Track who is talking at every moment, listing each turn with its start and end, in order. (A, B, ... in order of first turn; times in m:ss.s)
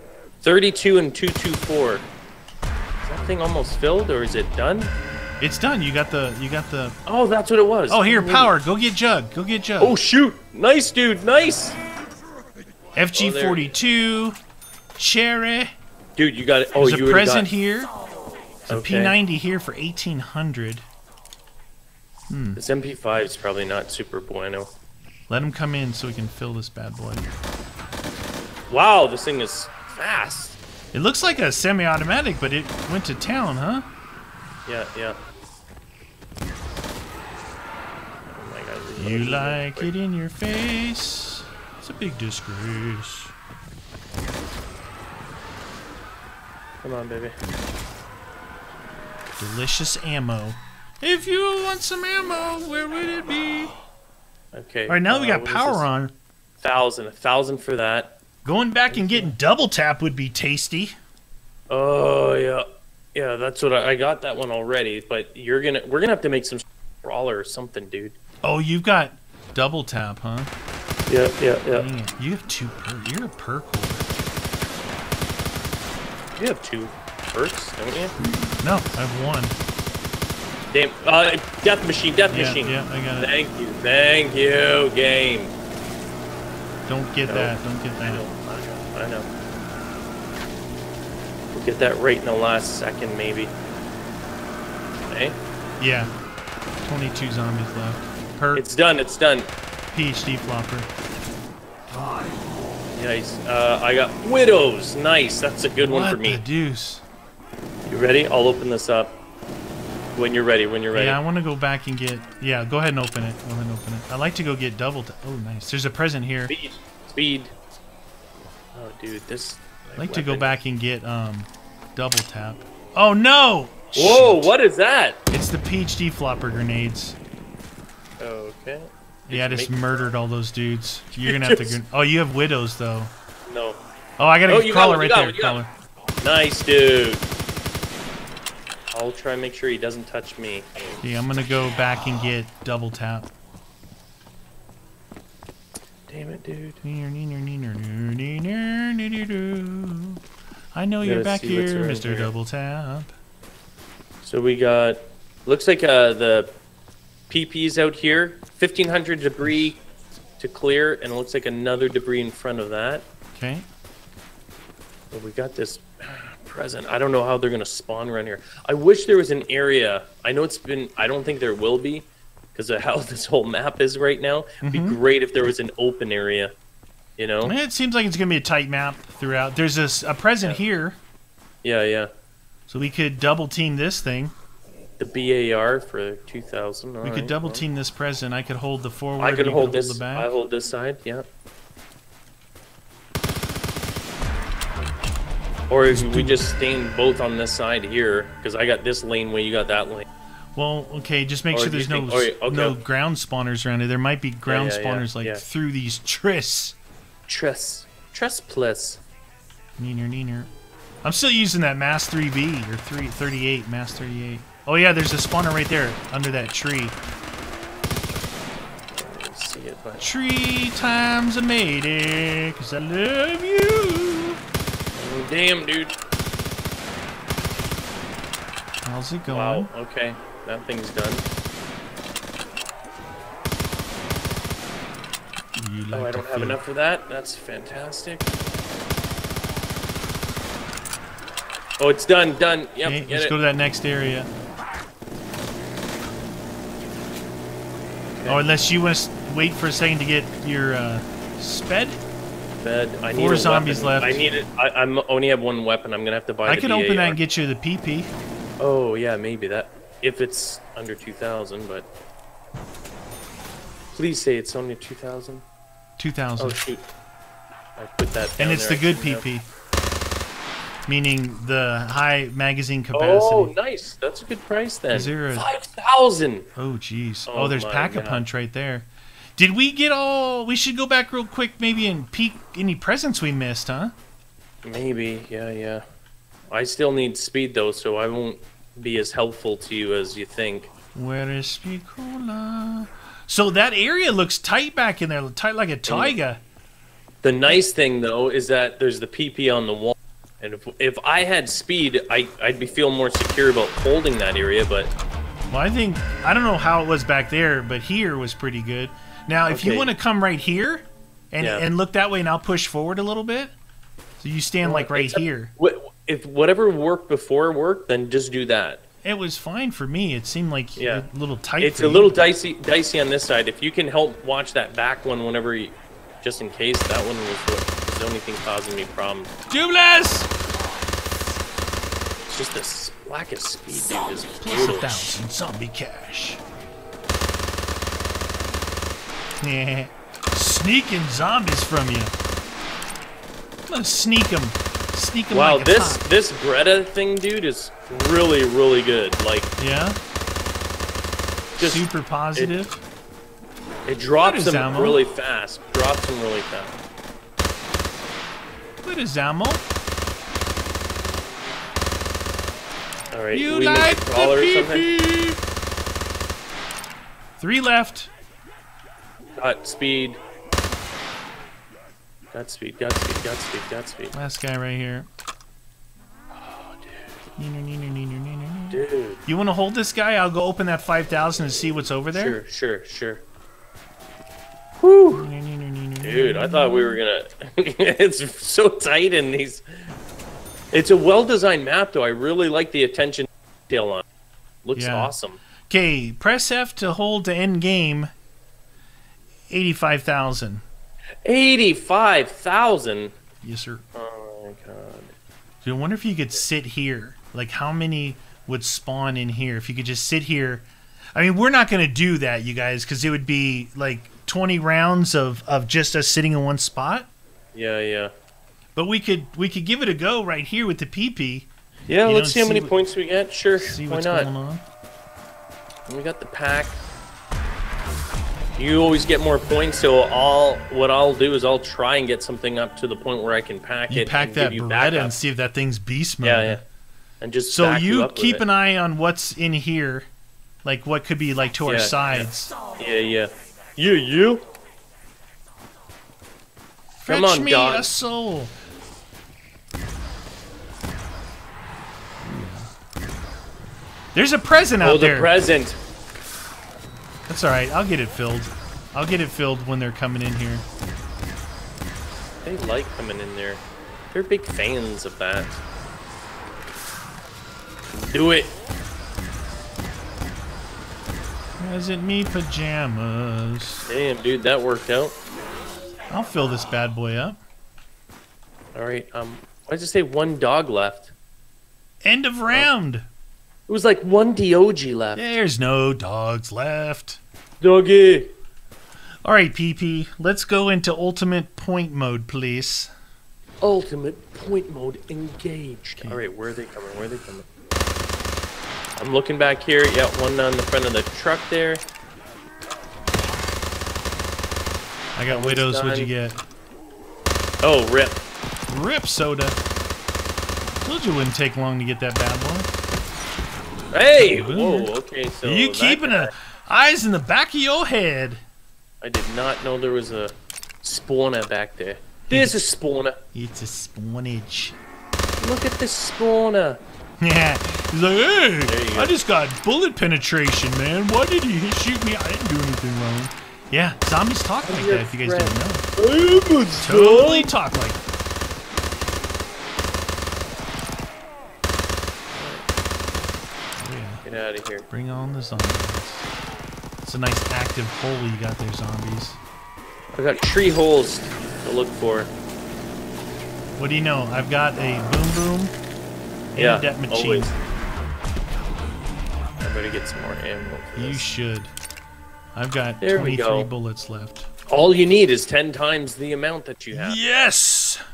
0:00.4-0:02.1 A
0:03.0-0:04.9 A
0:05.4-0:07.0 B
0:07.0-0:08.5 A
0:07.9-0:10.0 B
0:09.8-0:11.8 A
0:12.9-0:14.4 B
0:13.1-0:13.7 A
0:15.0-0:15.7 B
0:16.2-0:17.5 A
0:16.8-0:17.9 B
0:18.7-0:20.9 B
0:18.7-0:19.1 A
0:22.3-0:22.6 B
0:22.6-0:24.7 A
0:25.3-0:27.3 B
0:28.7-0:30.6 A
0:30.9-0:33.9 B
0:34.6-0:35.2 A
0:38.3-0:39.9 A
0:39.0-0:43.3 B
0:46.8-0:47.4 A
0:49.4-0:53.8 B
0:54.5-0:55.9 A
0:54.9-0:56.1 B
0:56.6-0:58.1 A
0:58.4-1:01.0 B
0:58.9-0:59.4 A
1:01.7-1:08.2 A
1:08.4-1:10.5 B
1:11.1-1:11.9 A
1:11.7-1:14.1 B
1:16.4-1:18.1 A
1:18.6-1:19.6 B
1:20.7-1:25.5 A
1:22.3-1:23.3 B
1:26.9-1:28.2 B
1:27.3-1:29.3 A
1:31.5-1:33.5 A
1:35.1-1:35.4 A
1:35.8-1:36.1 B
1:36.8-1:38.6 B
1:38.5-1:39.5 A
1:39.9-1:40.9 B
1:43.0-1:46.4 A
1:45.8-1:47.0 B
1:47.9-1:49.2 A
1:50.2-1:51.2 A
1:50.9-1:56.5 B
1:56.5-1:57.5 A
1:58.8-2:00.6 A
2:00.0-2:04.5 B
2:03.9-2:05.2 A
2:05.3-2:07.2 B
2:08.2-2:10.1 A
2:09.3-2:13.1 B
2:11.2-2:11.8 A
2:13.4-2:13.8 A
2:14.2-2:15.7 B
2:14.5-2:15.6 A
2:16.2-2:17.2 A
2:18.9-2:20.7 A
2:21.0-2:23.3 B
2:26.1-2:26.8 A
2:26.8-2:30.2 B
2:30.7-2:33.1 B
2:31.0-2:32.3 A
2:34.2-2:36.5 A
2:37.3-2:39.8 A
2:39.4-2:39.7 B
2:40.4-2:43.0 A
2:43.3-2:43.7 B
2:45.1-2:56.5 A
2:54.6-2:55.0 B
2:57.2-2:57.5 A
2:57.4-3:01.0 B
3:01.6-3:02.1 A
3:02.7-3:04.3 B
3:05.0-3:07.6 A
3:07.0-3:10.3 B
3:09.2-3:11.2 A
3:15.7-3:20.0 A
3:15.9-3:16.4 B
3:20.5-3:26.8 B
3:21.5-3:22.8 A
3:24.4-3:25.4 A
3:27.3-3:29.0 A
3:29.8-3:30.5 B
3:31.0-3:37.0 B
3:38.9-3:40.0 A
3:40.0-3:44.4 B
3:45.0-3:45.9 A
3:48.8-3:49.7 B
3:49.3-3:51.2 A
3:55.5-3:56.6 B
3:55.9-3:58.3 A
4:01.8-4:03.4 A
4:02.8-4:04.3 B
4:08.1-4:08.4 A
4:08.3-4:12.0 B
4:12.6-4:17.2 A
4:13.1-4:14.2 B
4:16.4-4:18.1 B
4:18.6-4:21.9 A
4:23.9-4:25.4 A
4:26.0-4:26.6 B
4:26.4-4:26.9 A
4:27.8-4:29.2 A
4:28.4-4:29.5 B
4:30.9-4:33.5 B
4:32.9-4:36.5 A
4:34.9-4:35.5 B
4:36.6-4:43.9 B
4:37.3-4:38.2 A
4:44.6-4:45.8 A
4:46.5-4:50.7 A
4:50.9-4:56.4 B
4:55.8-4:56.2 A
4:57.2-5:04.9 A
5:05.5-5:13.5 B
5:09.5-5:09.9 A
5:11.4-5:11.6 A
5:14.2-5:15.5 B
5:14.6-5:18.8 A
5:19.0-5:22.2 B
5:20.8-5:21.0 A
5:21.6-5:29.3 A
5:29.5-5:30.3 B
5:32.3-5:35.2 A
5:34.4-5:36.4 B
5:39.4-5:42.1 B
5:43.7-5:46.0 B
5:45.3-5:49.5 A
5:49.6-5:50.0 B
5:51.6-5:51.8 A
5:51.6-5:52.8 B
5:53.9-5:56.8 A
5:54.2-5:55.0 B
5:58.8-5:59.6 B
6:03.1-6:04.9 A
6:03.3-6:05.4 B
6:07.4-6:08.1 B
6:09.4-6:10.2 A
6:12.3-6:14.2 A
6:14.1-6:15.1 B
6:16.3-6:17.2 A
6:17.4-6:22.4 B
6:18.7-6:19.2 A
6:22.1-6:23.2 A
6:24.8-6:25.3 A
6:25.1-6:27.0 B
6:26.0-6:29.6 A
6:30.7-6:34.0 A
6:34.6-6:35.4 A
6:34.8-6:35.1 B
6:35.7-6:38.1 B
6:39.5-6:40.6 B
6:41.2-6:43.1 A
6:43.4-6:43.8 B
6:43.9-6:45.1 A
6:45.6-6:57.1 B
6:57.5-6:58.1 A
6:58.8-7:01.5 B
7:01.9-7:04.3 A
7:02.0-7:02.7 B
7:03.6-7:04.6 B
7:05.9-7:06.8 A
7:08.6-7:15.2 A
7:13.9-7:16.6 B
7:16.2-7:16.6 A
7:17.2-7:18.4 A
7:17.5-7:20.1 B
7:20.6-7:22.5 B
7:21.6-7:24.4 A
7:27.0-7:28.5 B
7:27.1-7:27.9 A
7:32.2-7:32.7 B
7:34.1-7:35.3 B
7:34.8-7:35.8 A
7:37.3-7:40.6 B
7:42.4-7:45.6 A
7:47.9-7:48.5 A
7:51.6-7:53.8 B
7:53.9-7:55.2 A
7:56.1-7:57.4 B
7:58.8-8:01.1 A
8:02.0-8:03.1 B
8:03.7-8:05.2 A
8:05.1-8:07.2 B
8:07.6-8:08.3 A
8:09.2-8:12.9 B
8:13.6-8:17.4 A
8:19.0-8:21.8 A
8:25.2-8:26.4 B
8:25.3-8:26.1 A
8:27.6-8:28.2 A
8:28.7-8:29.6 B
8:30.8-8:32.7 B
8:33.9-8:36.3 A
8:34.2-8:34.9 B
8:35.4-8:38.4 B
8:39.0-8:43.1 A
8:42.3-8:42.6 B
8:43.3-8:44.8 B
8:45.4-8:46.8 A
8:47.2-8:55.9 B
8:48.7-8:49.1 A
8:54.6-8:57.5 A
8:56.8-8:58.0 B
9:02.3-9:02.6 A
9:03.8-9:04.2 B
9:04.2-9:04.9 A
9:04.9-9:06.3 B
9:07.0-9:09.4 B
9:10.1-9:12.3 A
9:13.8-9:15.7 B
9:16.6-9:17.6 B
9:16.6-9:17.6 A
9:19.6-9:21.2 A
9:21.0-9:21.7 B
9:22.6-9:24.5 B
9:23.0-9:23.7 A
9:24.7-9:27.2 A
9:26.9-9:28.0 B